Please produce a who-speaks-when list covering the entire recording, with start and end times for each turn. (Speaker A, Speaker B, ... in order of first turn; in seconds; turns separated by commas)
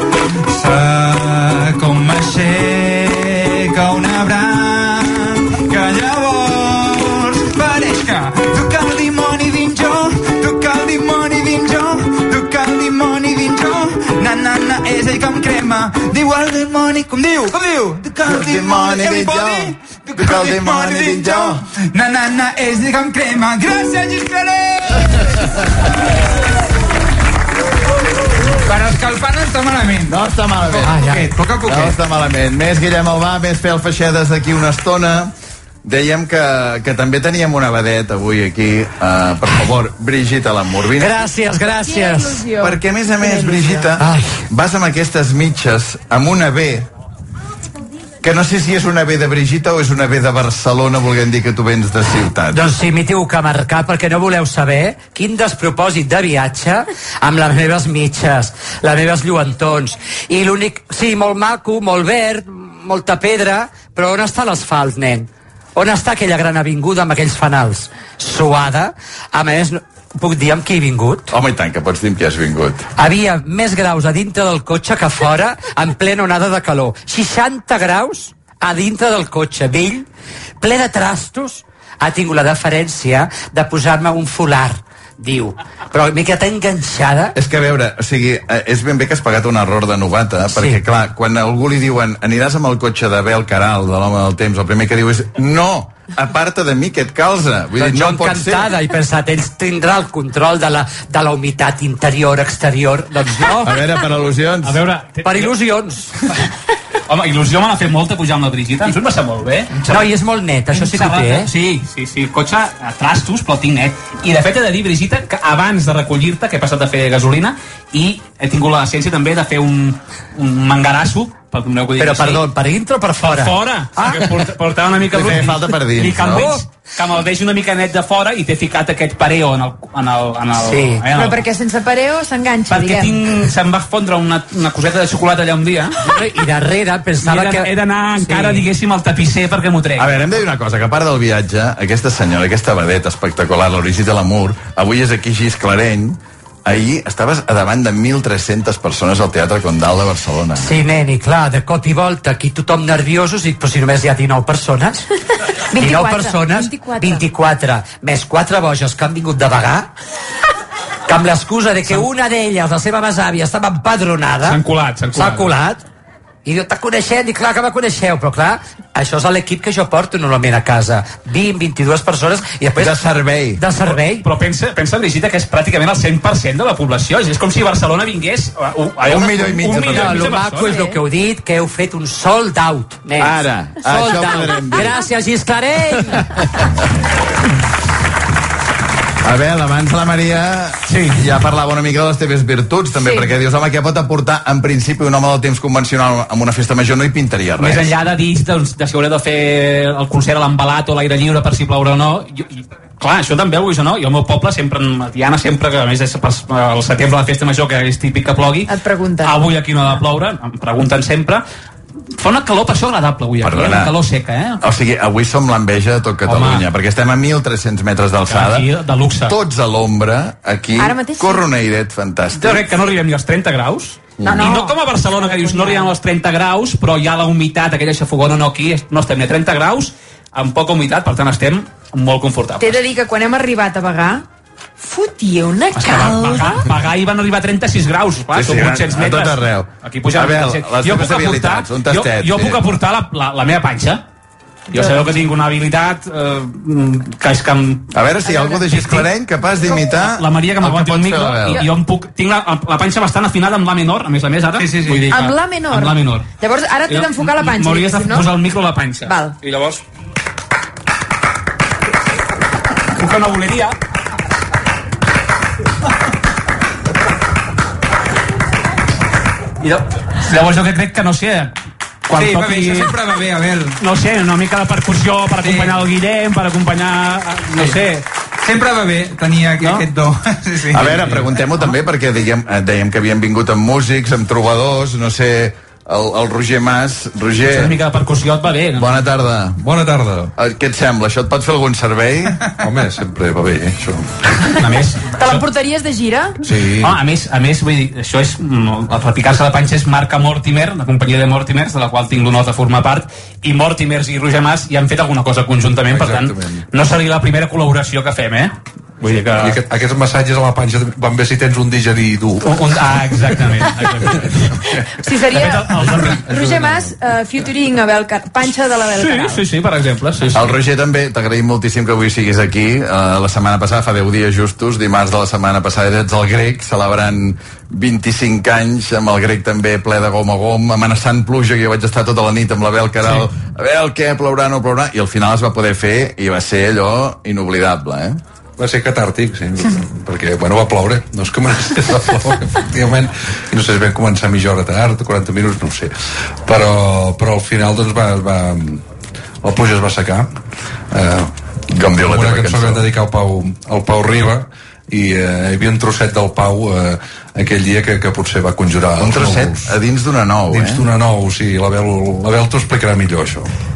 Speaker A: 0.4-25.5, Speaker B: 18.3-21.6, Speaker A: 28.6-32.0, Speaker B: 30.1-31.1, Speaker C: 30.8-31.3, Speaker B: 31.6-35.3, Speaker B: 35.8-41.1, Speaker C: 41.0-42.5, Speaker D: 41.8-44.0, Speaker B: 42.6-46.9, Speaker C: 44.0-44.4, Speaker B: 48.2-52.6, Speaker C: 52.5-71.3, Speaker B: 71.3-72.9, Speaker C: 73.0-80.1, Speaker C: 80.6-87.3, Speaker B: 87.3-98.7, Speaker C: 90.5-90.8, Speaker C: 97.8-103.8, Speaker B: 103.6-104.8, Speaker E: 104.6-105.5, Speaker C: 105.2-106.1, Speaker E: 107.1-110.1, Speaker C: 109.8-111.5, Speaker E: 110.7-122.5, Speaker C: 122.0-124.3, Speaker E: 123.3-131.4, Speaker B: 125.1-126.5, Speaker C: 130.6-131.1, Speaker D: 131.1-133.3, Speaker E: 132.7-136.0, Speaker C: 136.0-138.7, Speaker E: 137.2-140.1, Speaker B: 140.0-150.7, Speaker C: 150.6-155.1, Speaker D: 155.7-157.2, Speaker C: 155.8-159.9, Speaker C: 161.1-164.6, Speaker E: 164.4-165.5, Speaker C: 165.1-165.8, Speaker C: 166.4-173.0, Speaker B: 172.8-173.6, Speaker C: 173.6-174.3, Speaker E: 173.8-180.8, Speaker B: 179.1-180.3, Speaker C: 179.7-186.2, Speaker D: 180.6-181.0, Speaker B: 183.2-184.9, Speaker B: 189.2-197.9, Speaker E: 190.9-191.2, Speaker D: 193.0-193.3, Speaker E: 197.6-211.4, Speaker D: 208.7-209.4, Speaker E: 212.1-214.6, Speaker B: 213.4-213.9, Speaker B: 214.6-218.7, Speaker E: 216.2-216.6, Speaker E: 218.3-219.3, Speaker B: 219.3-222.6, Speaker D: 220.8-221.5, Speaker E: 222.4-232.8, Speaker B: 224.2-224.5, Speaker D: 224.2-225.9, Speaker D: 232.6-234.2, Speaker D: 234.8-236.7, Speaker E: 235.7-244.0, Speaker B: 238.3-242.6, Speaker E: 244.7-247.9, Speaker D: 244.7-245.0, Speaker B: 247.9-251.7, Speaker D: 248.3-248.7, Speaker E: 248.7-249.1, Speaker E: 249.8-256.3, Speaker A: 254.6-255.1, Speaker D: 255.1-258.3, Speaker E: 256.9-259.8, Speaker D: 259.1-259.4, Speaker E: 262.9-263.8, Speaker E: 269.6-271.6, Speaker E: 272.1-272.9, Speaker A: 272.1-273.8, Speaker E: 273.8-278.1, Speaker A: 275.4-275.8, Speaker A: 278.4-281.3, Speaker B: 280.7-287.7, Speaker E: 287.4-289.1, Speaker B: 288.8-289.6, Speaker F: 289.6-290.3, Speaker B: 290.4-292.4, Speaker F: 292.6-294.1, Speaker E: 294.6-295.4, Speaker D: 295.1-296.4, Speaker F: 296.4-297.0, Speaker E: 296.8-309.6, Speaker F: 305.9-306.6, Speaker F: 309.3-312.6, Speaker E: 312.4-314.4, Speaker D: 315.0-319.4, Speaker E: 315.3-316.2, Speaker E: 318.9-320.5, Speaker B: 320.4-338.2, Speaker F: 338.6-345.9, Speaker F: 346.5-348.8, Speaker F: 349.4-350.3, Speaker F: 350.9-351.3, Speaker B: 351.7-352.9, Speaker F: 352.0-359.7, Speaker B: 359.0-360.9, Speaker F: 360.5-363.5